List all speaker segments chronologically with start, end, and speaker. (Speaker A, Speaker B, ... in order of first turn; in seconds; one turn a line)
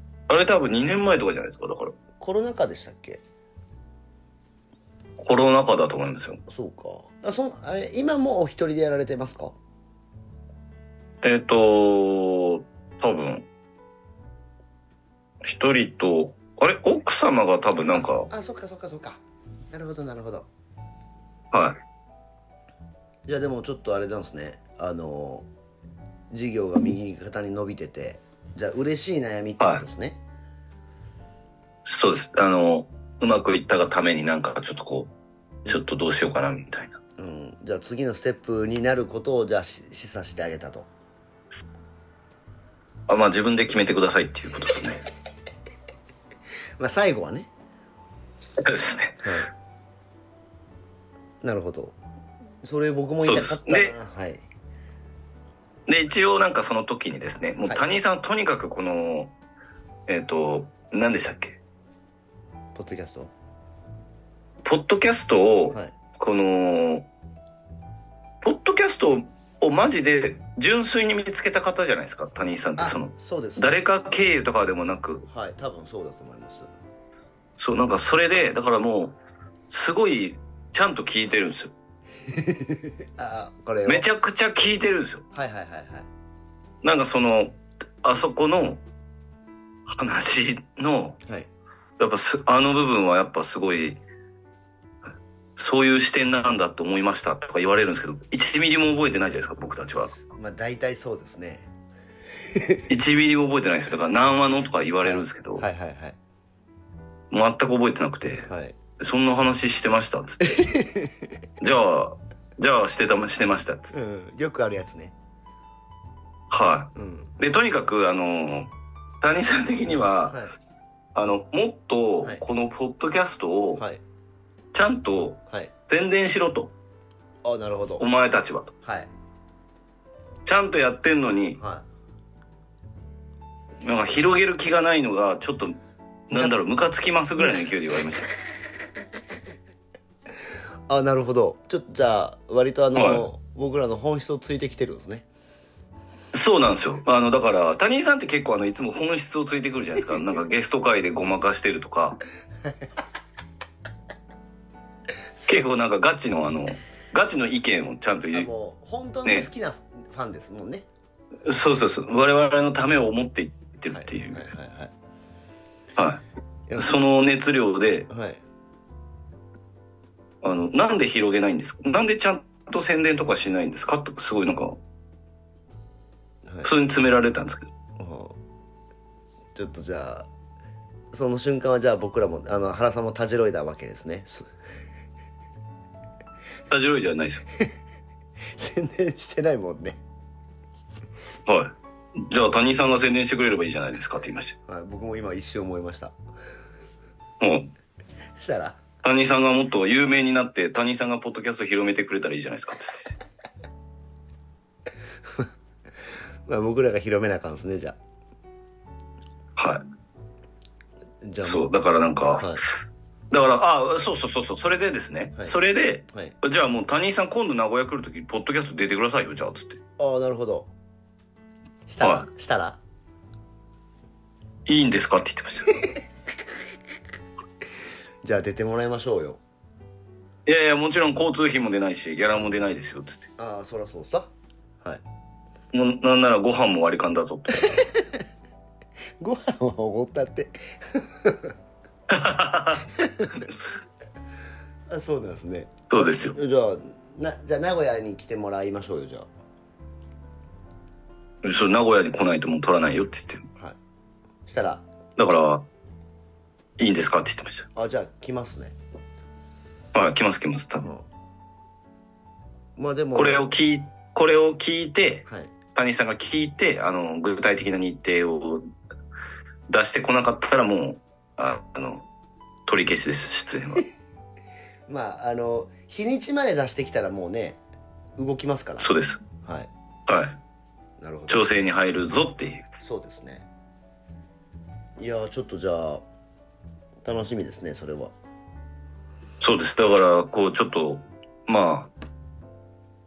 Speaker A: 0.3-1.9
Speaker B: 2.2-3.2
Speaker A: 5.2-6.4
Speaker B: 6.5-9.6
Speaker A: 11.2-13.5
Speaker A: 15.4-18.3
Speaker B: 17.8-19.2
Speaker B: 19.7-20.5
Speaker A: 21.5-21.8
Speaker B: 23.3-25.5
Speaker B: 26.3-30.2
Speaker A: 31.9-35.1
Speaker A: 35.7-37.0
Speaker B: 37.2-40.9
Speaker A: 43.1-45.0
Speaker B: 46.8-47.5
Speaker A: 48.6-49.3
Speaker B: 49.2-49.5
Speaker B: 51.4-52.0
Speaker B: 52.6-54.4
Speaker A: 53.2-54.0
Speaker A: 55.9-59.3
Speaker A: 60.1-61.6
Speaker B: 62.8-63.3
Speaker A: 64.6-67.1
Speaker A: 68.4-75.3
Speaker B: 72.8-73.8
Speaker B: 75.3-76.7
Speaker A: 77.6-79.2
Speaker A: 79.7-81.7
Speaker B: 82.3-84.1
Speaker A: 83.9-85.2
Speaker B: 85.3-86.1
Speaker A: 86.8-88.8
Speaker A: 89.9-91.2
Speaker A: 92.0-94.0
Speaker A: 95.6-100.2
Speaker B: 100.3-101.7
Speaker A: 102.9-105.7
Speaker B: 105.0-106.2
Speaker A: 107.3-110.7
Speaker B: 108.5-108.8
Speaker B: 110.5-111.1
Speaker A: 111.6-113.9
Speaker B: 113.9-115.2
Speaker A: 116.5-120.4
Speaker B: 117.0-117.3
Speaker A: 121.2-123.9
Speaker A: 124.7-126.7
Speaker B: 127.4-128.1
Speaker A: 128.0-128.7
Speaker B: 128.8-129.1
Speaker A: 130.5-131.6
Speaker B: 131.6-131.8
Speaker A: 133.8-138.3
Speaker B: 140.9-145.3
Speaker A: 142.9-143.3
Speaker A: 146.3-152.2
Speaker A: 155.5-158.5
Speaker B: 158.3-160.9
Speaker A: 161.5-164.5
Speaker B: 163.9-164.9
Speaker A: 166.0-166.2
Speaker B: 166.7-167.0
Speaker A: 166.8-168.1
Speaker B: 168.1-168.4
Speaker A: 170.4-174.8
Speaker A: 176.6-177.7
Speaker B: 178.0-178.4
Speaker B: 179.6-180.3
Speaker B: 181.1-184.5
Speaker A: 186.7-187.4
Speaker B: 188.6-190.0
Speaker A: 191.5-194.6
Speaker B: 194.7-196.1
Speaker A: 197.4-197.7
Speaker B: 198.4-198.8
Speaker A: 199.0-203.0
Speaker B: 206.5-208.0
Speaker A: 209.6-209.8
Speaker B: 211.2-211.7
Speaker A: 211.4-212.6
Speaker B: 212.4-212.6
Speaker A: 213.3-219.8
Speaker B: 220.0-220.7
Speaker B: 221.9-222.8
Speaker A: 222.0-222.3
Speaker A: 224.7-225.8
Speaker B: 228.2-229.4
Speaker A: 230.5-233.3
Speaker B: 233.4-234.3
Speaker A: 235.7-237.8
Speaker B: 237.7-238.0
Speaker B: 239.2-241.5
Speaker A: 242.1-242.9
Speaker B: 243.0-243.4
Speaker B: 244.9-249.3
Speaker A: 245.9-246.4
Speaker A: 251.4-253.4
Speaker B: 254.5-254.8
Speaker A: 255.2-255.7
Speaker A: 256.8-257.7
Speaker B: 257.8-258.8
Speaker A: 259.9-260.9
Speaker B: 262.8-263.4
Speaker A: 263.1-268.7
Speaker B: 265.3-265.5
Speaker A: 269.7-272.1
Speaker A: 272.7-273.9
Speaker B: 274.9-277.6
Speaker B: 278.2-278.9
Speaker A: 278.8-279.2
Speaker B: 279.4-279.7
Speaker A: 280.1-280.4
Speaker B: 281.0-281.5
Speaker A: 281.3-282.7
Speaker B: 282.8-283.5
Speaker B: 285.0-286.0
Speaker B: 287.0-288.1
Speaker A: 289.4-291.9